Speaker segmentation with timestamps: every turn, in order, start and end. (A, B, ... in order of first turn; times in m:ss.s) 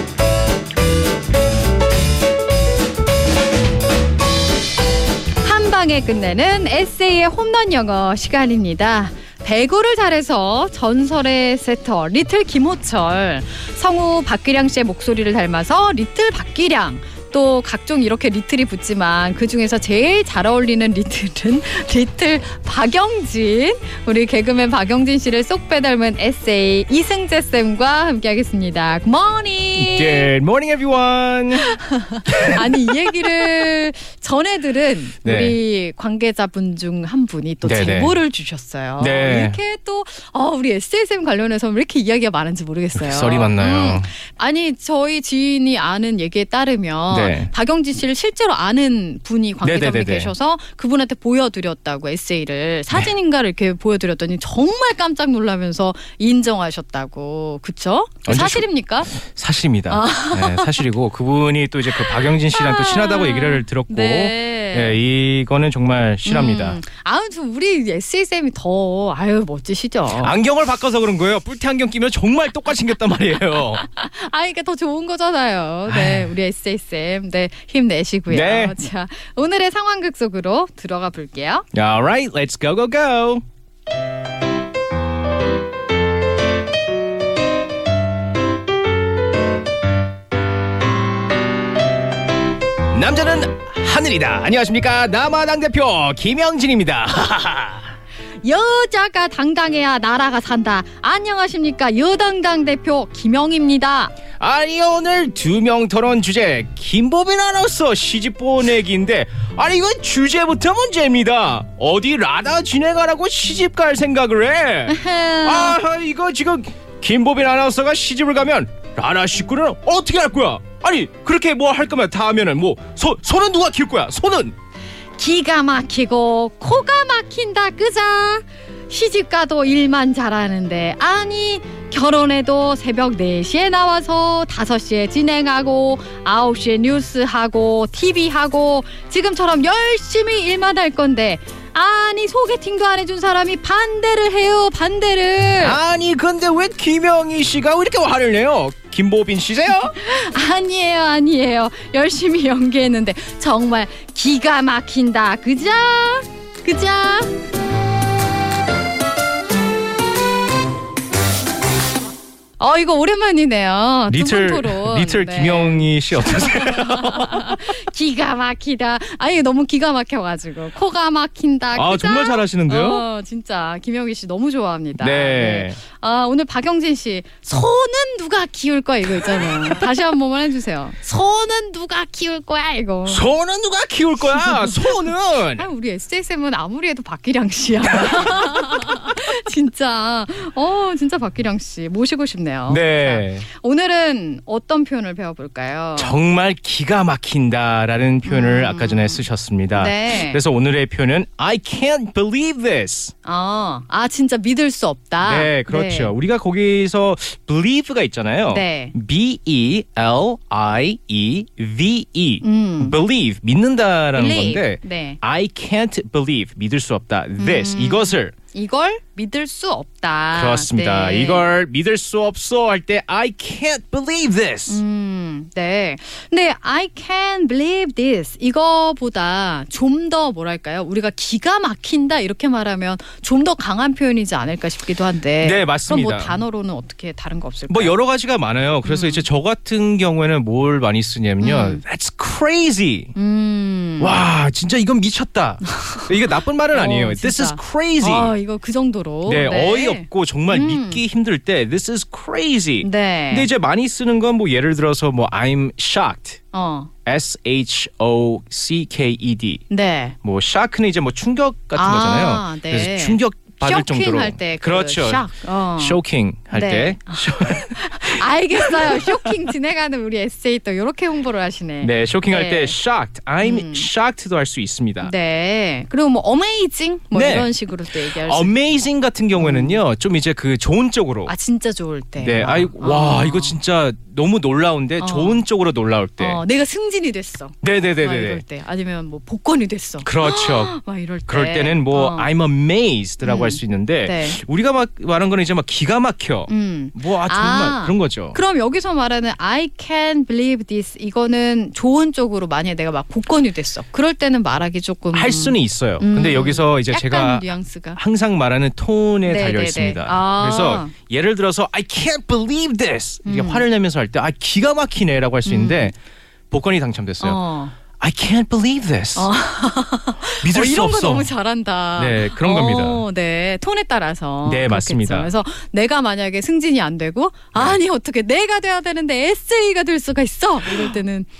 0:05.4-0:30.3 A
0:29.8-0:32.9 B
0:31.6-0:59.2 A
0:35.2-0:35.6 B
0:37.6-0:38.2 B
0:39.0-0:39.6 B
0:42.9-0:44.1 B
0:47.1-0:47.5 B
0:49.6-0:50.3 B
0:58.2-1:06.8 B
0:59.9-1:00.8 A
1:02.0-1:05.0 A
1:06.2-1:10.4 A
1:10.1-1:13.8 B
1:13.7-1:21.6 A
1:15.9-1:16.3 B
1:18.3-1:18.8 B
1:21.7-1:23.4 B
1:32.9-1:37.9 B
1:38.4-1:44.1 A
1:44.4-2:04.5 B
1:54.9-1:55.8 A
2:05.2-2:25.8 A
2:25.6-2:30.0 B
2:29.9-2:37.3 A
2:42.6-3:03.3 A
2:44.1-2:47.6 B
2:51.7-2:53.0 B
2:55.0-2:55.8 B
3:03.1-3:05.7 B
3:04.4-3:05.0 A
3:05.5-3:16.1 A
3:12.7-3:13.4 B
3:16.0-3:23.1 B
3:18.2-3:19.2 A
3:19.8-3:20.4 A
3:23.2-3:26.1 A
3:25.2-3:38.3 B
3:28.5-3:28.9 A
3:32.4-3:33.0 A
3:34.1-3:35.2 A
3:37.4-3:41.5 A
3:40.3-3:44.8 B
3:44.7-3:58.0 A
3:55.4-3:56.4 B
3:57.7-4:03.1 B
3:58.8-3:59.2 A
4:01.4-4:01.8 A
4:03.1-4:04.2 A
4:04.0-4:08.3 B
4:05.7-4:06.1 A
4:06.7-4:11.0 A
4:09.2-4:16.4 B
4:12.8-4:13.5 A
4:16.5-4:16.9 A
4:17.0-4:19.6 B
4:19.7-4:20.1 A
4:20.2-4:29.3 B
4:21.8-4:26.0 A
4:26.5-4:32.8 A
4:31.8-4:35.1 B
4:33.4-4:33.9 A
4:35.0-4:38.5 A
4:37.1-4:37.5 B
4:38.1-4:41.3 B
4:39.4-4:39.8 A
4:41.2-4:43.5 A
4:42.2-4:46.4 B
4:45.0-4:45.4 A
4:46.2-4:52.3 A
4:47.6-4:48.4 B
4:50.0-4:50.8 B
4:51.3-4:58.4 B
4:53.2-4:54.4 A
4:56.5-5:08.0 A
5:05.1-5:15.9 B
5:09.2-5:10.9 A
5:13.2-5:13.6 A
5:15.4-5:15.9 A
5:16.5-5:17.4 B
5:17.2-5:17.8 A
5:18.0-5:19.3 B
5:19.1-5:31.3 A
5:20.4-5:21.3 B
5:22.0-5:23.0 B
5:24.4-5:25.3 B
5:30.7-5:31.0 B